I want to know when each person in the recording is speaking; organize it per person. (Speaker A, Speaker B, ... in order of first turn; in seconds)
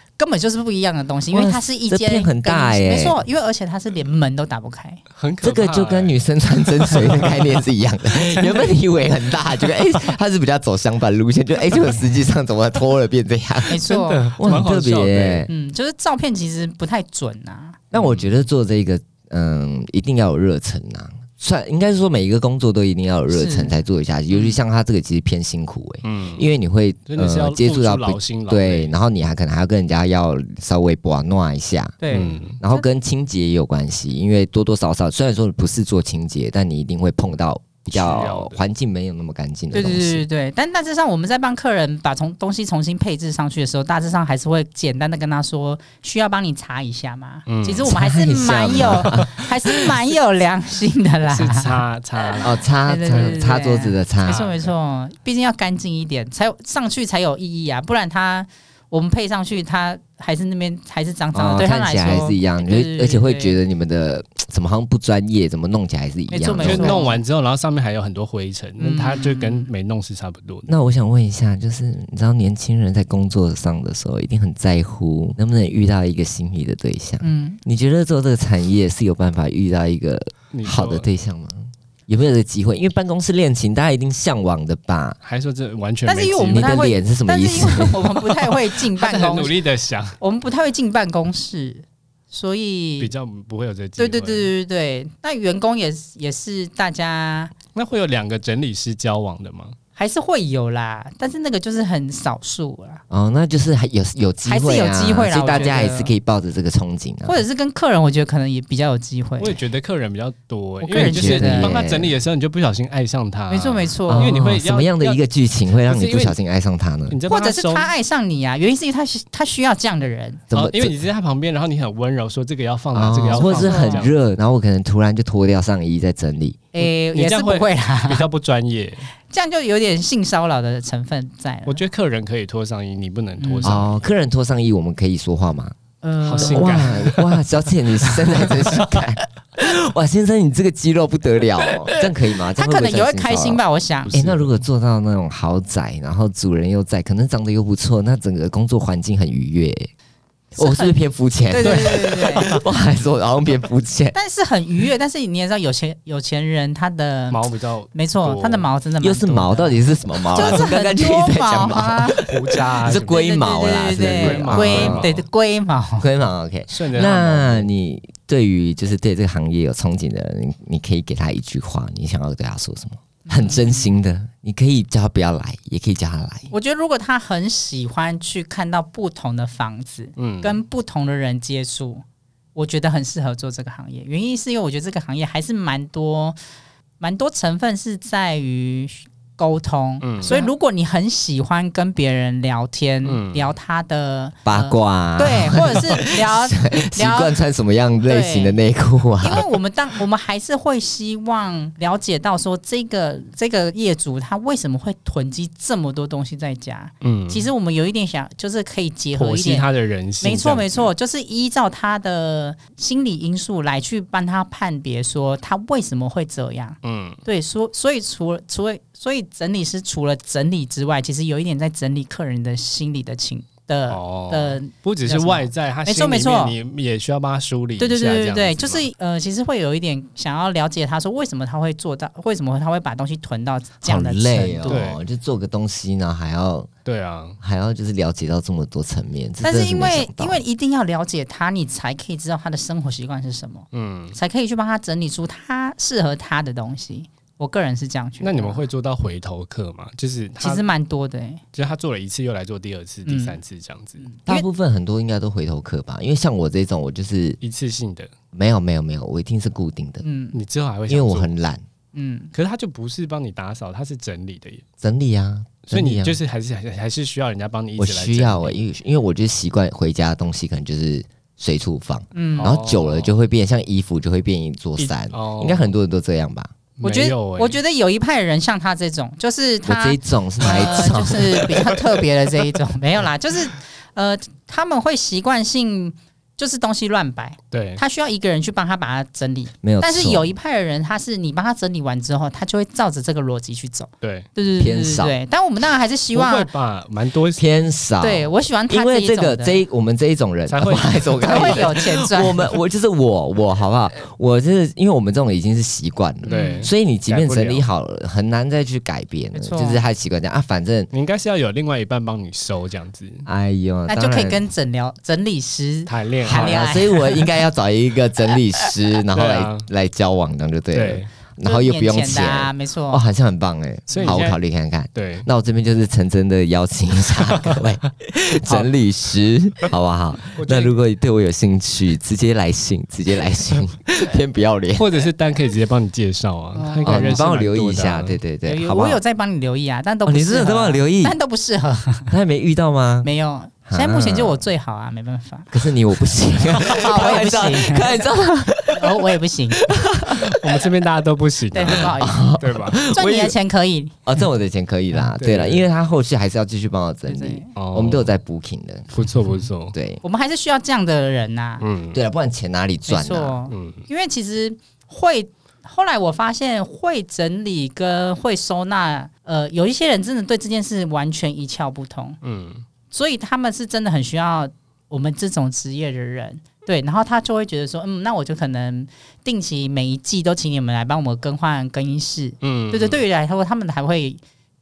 Speaker A: 0.2-5.0, 13.7-14.3, 15.5-17.8, 23.3-23.8, 24.3-24.6, 32.0-32.9, 39.7-51.8, 52.9-63.6, 66.3-67.2, 68.8-69.7, 77.2-77.6, 86.1-89.6, 90.2-93.1, 94.0-97.5, 100.0-103.0, 104.5-106.1, 107.2-109.6, 110.8-111.7, 113.5-114.4, 117.3-120.4, 123.3-124.1, 126.7-128.3, 129.3-131.9, 133.4-133.8, 136.0-137.1, 142.6-144.2, 150.6-152.5, 154.1-157.4, 157.9-162.2, 162.9-166.1, 173.3-173.9, 176.5-182.0, 182.6-186.4, 187.0-197.3, 198.0-198.6, 199.2-209.7, 210.2-226.6, 227.8-234.8, 239.4-248.7, 250.4-251.4, 253.1-253.4, 254.0-254.5, 260.0-260.4, 261.9-262.3, 272.1-272.6, 276.8-296.5, 298.0-299.6, 301.2-302.5, 306.3-306.6, 309.3-309.8, 313.9-317.2, 321.4-323.1, 336.6-337.3, 338.4-342.1, 343.0-345.5, 346.5-349.7, 351.5-354.0, 357.1-357.5, 360.0-361.7, 362.9-372.2, 372.9-384.2
Speaker B: 1.3-3.2, 5.4-15.5, 17.9-32.0, 32.6-40.2, 47.8-49.9, 52.4-54.4, 61.3-67.0, 70.7-85.2, 86.5-88.4, 103.1-107.4, 111.0-112.1, 114.1-117.2, 120.5-121.0, 122.9-126.6, 133.6-135.8, 136.4-149.9, 150.6-154.2, 159.0-165.1, 166.0-176.5, 194.5-199.5, 233.8-236.7, 237.4-240.4, 254.3-257.4, 258.3-260.0, 260.9-261.6, 264.8-266.2, 267.8-276.5, 279.7-281.6, 289.6-290.3, 294.6-295.2, 297.4-310.9, 313.3-314.4, 316.2-334.9, 336.8-339.0, 340.1-341.2, 342.1-343.1, 343.7-344.4, 345.5-350.6, 351.7-353.4, 354.1-358.9, 359.7-360.0, 361.9-363.4
Speaker C: 5.2-6.2, 6.8-7.3, 13.7-15.5, 17.9-18.3, 26.0-26.5, 27.1-28.9, 32.1-32.6, 37.9-38.6, 47.5-47.9, 51.3-52.6, 53.1-53.4, 54.2-54.7, 66.6-70.7, 80.5-81.1, 85.2-86.7, 88.9-90.2, 93.0-94.5, 97.8-99.8, 109.4-116.4, 117.1-117.9, 120.5-124.1, 126.8-129.1, 131.7-134.0, 136.2-137.2, 138.0-139.0, 144.1-144.6, 151.6-152.6, 157.3-158.7, 162.2-163.2, 164.0-165.2, 166.7-167.7, 180.2-180.6, 190.0-190.4, 193.0-193.5, 207.0-207.5, 209.2-210.9, 216.8-217.2, 223.9-228.8, 234.7-235.0, 236.8-237.4, 243.7-244.2, 248.2-250.6, 251.5-254.1, 257.4-258.1, 260.3-261.3, 262.3-264.6, 265.7-268.6, 272.4-273.1, 274.8-275.7, 276.8-277.6, 287.5-287.8, 294.0-294.3, 296.1-297.5, 300.5-301.8, 306.2-307.6, 310.9-313.3, 315.9-316.8, 319.1-319.7, 320.7-321.1, 323.9-324.4, 324.9-325.3, 327.2-327.6, 328.4-328.7, 330.3-330.7, 334.8-338.2, 350.1-352.8, 355.2-355.6, 357.6-358.1, 358.9-359.8, 361.6-362.0, 363.5-363.8, 372.2-372.7, 382.4-383.0